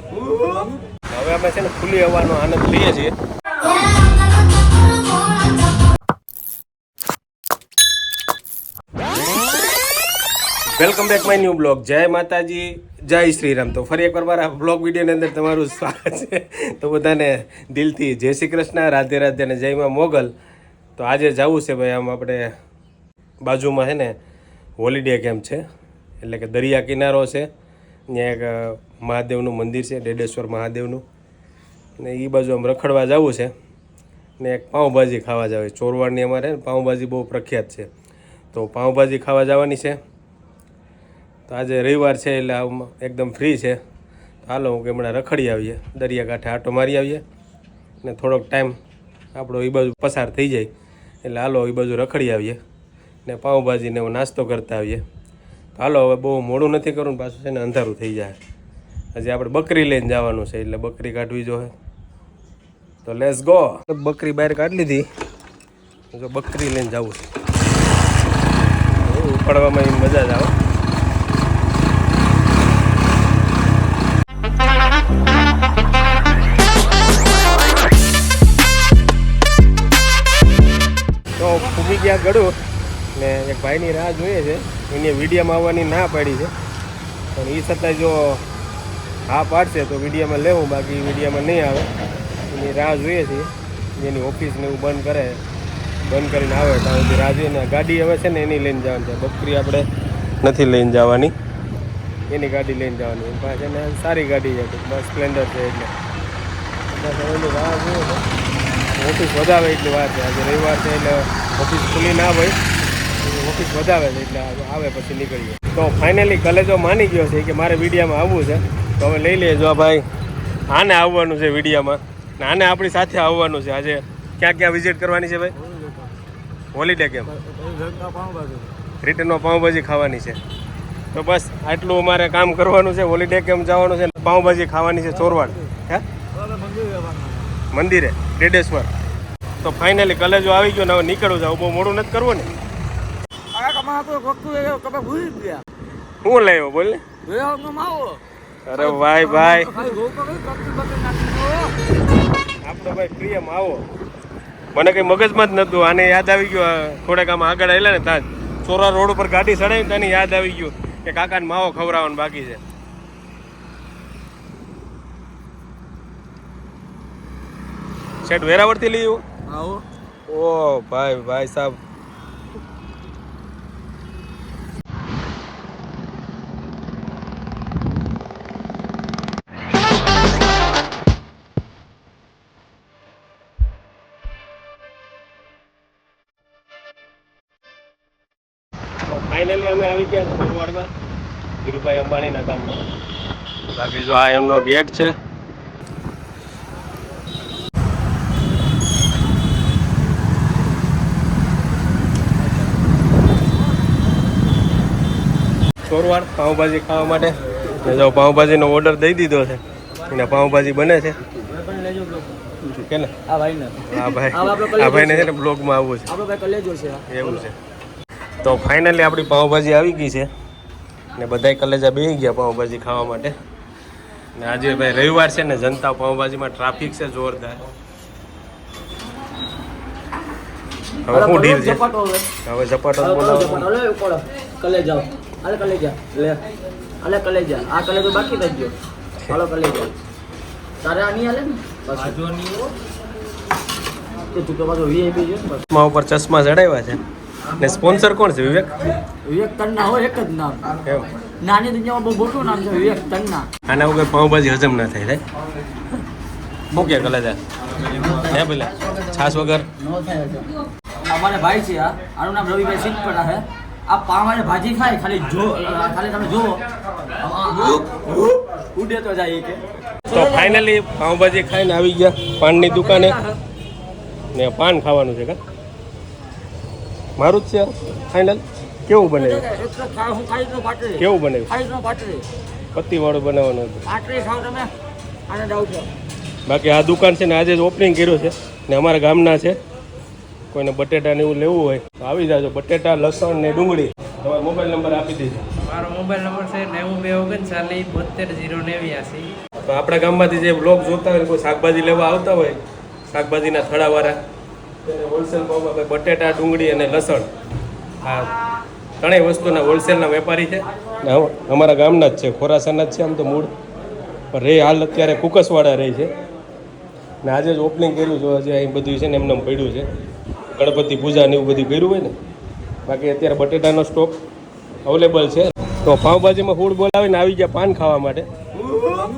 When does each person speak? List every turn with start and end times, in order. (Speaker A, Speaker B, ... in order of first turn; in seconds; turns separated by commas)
Speaker A: 0.2-0.8, Speaker B: 1.1-3.1, Speaker B: 10.7-20.3, Speaker B: 21.0-22.5, Speaker B: 23.4-24.1, Speaker B: 24.8-25.6, Speaker B: 26.2-27.5, Speaker B: 28.1-31.0, Speaker B: 32.0-33.5, Speaker B: 34.4-37.9, Speaker B: 38.5-40.0, Speaker B: 41.5-43.8, Speaker B: 44.4-47.2, Speaker B: 48.0-48.8, Speaker B: 49.3-50.7, Speaker B: 51.2-52.6, Speaker B: 53.2-55.0, Speaker B: 55.8-58.4, Speaker B: 59.1-61.7, Speaker B: 63.0-65.0, Speaker B: 66.1-67.3, Speaker B: 69.0-70.5, Speaker B: 81.4-82.5, Speaker B: 83.2-86.5, Speaker B: 87.3-88.4, Speaker B: 89.3-91.9, Speaker B: 92.5-95.4, Speaker B: 96.1-99.9, Speaker B: 100.4-101.3, Speaker B: 102.3-105.9, Speaker B: 106.9-108.2, Speaker B: 109.0-112.6, Speaker B: 113.2-120.0, Speaker B: 120.7-125.5, Speaker A: 125.6-126.1, Speaker B: 126.7-127.3, Speaker A: 127.3-128.7, Speaker B: 129.0-130.4, Speaker B: 131.1-136.1, Speaker A: 135.2-135.7, Speaker A: 136.3-137.6, Speaker B: 137.7-138.9, Speaker B: 139.6-142.5, Speaker A: 143.5-145.6, Speaker B: 146.2-147.0, Speaker A: 147.2-148.2, Speaker B: 148.7-149.7, Speaker A: 148.8-151.7, Speaker B: 152.6-153.8, Speaker B: 154.8-162.6, Speaker B: 168.2-169.2, Speaker A: 169.5-169.8, Speaker B: 170.3-171.8, Speaker B: 189.1-190.9, Speaker B: 191.7-192.8, Speaker B: 193.8-195.1, Speaker B: 205.9-211.2, Speaker A: 211.3-212.5, Speaker B: 212.8-213.1, Speaker A: 213.3-215.3, Speaker B: 213.9-216.1, Speaker A: 216.1-217.4, Speaker B: 217.1-217.6, Speaker B: 218.4-220.3, Speaker B: 221.2-223.3, Speaker B: 224.4-227.6, Speaker B: 231.1-231.8, Speaker A: 231.1-232.3, Speaker B: 232.4-233.7, Speaker A: 233.0-236.4, Speaker A: 237.0-238.8, Speaker A: 239.3-239.9, Speaker A: 240.8-242.7, Speaker A: 244.3-245.6, Speaker B: 245.7-247.0, Speaker B: 247.6-248.9, Speaker A: 249.2-250.8, Speaker B: 250.8-251.1, Speaker A: 251.4-253.5, Speaker B: 253.7-255.2, Speaker B: 256.7-257.4, Speaker A: 257.9-258.2, Speaker B: 258.1-259.7, Speaker A: 259.9-260.5, Speaker A: 261.1-270.6, Speaker B: 270.1-273.2, Speaker A: 272.8-273.3, Speaker B: 274.4-275.4, Speaker B: 277.2-279.5, Speaker A: 279.1-282.3, Speaker B: 281.0-281.5, Speaker B: 282.8-283.9, Speaker A: 283.9-284.7, Speaker A: 285.3-285.9, Speaker B: 286.5-289.6, Speaker B: 290.5-295.5, Speaker C: 295.6-299.3, Speaker B: 299.6-304.2, Speaker B: 304.8-307.3, Speaker B: 308.0-308.3, Speaker B: 309.0-313.5, Speaker B: 314.3-316.1, Speaker B: 317.2-319.9, Speaker B: 320.5-322.1, Speaker B: 322.9-324.2, Speaker B: 324.9-328.3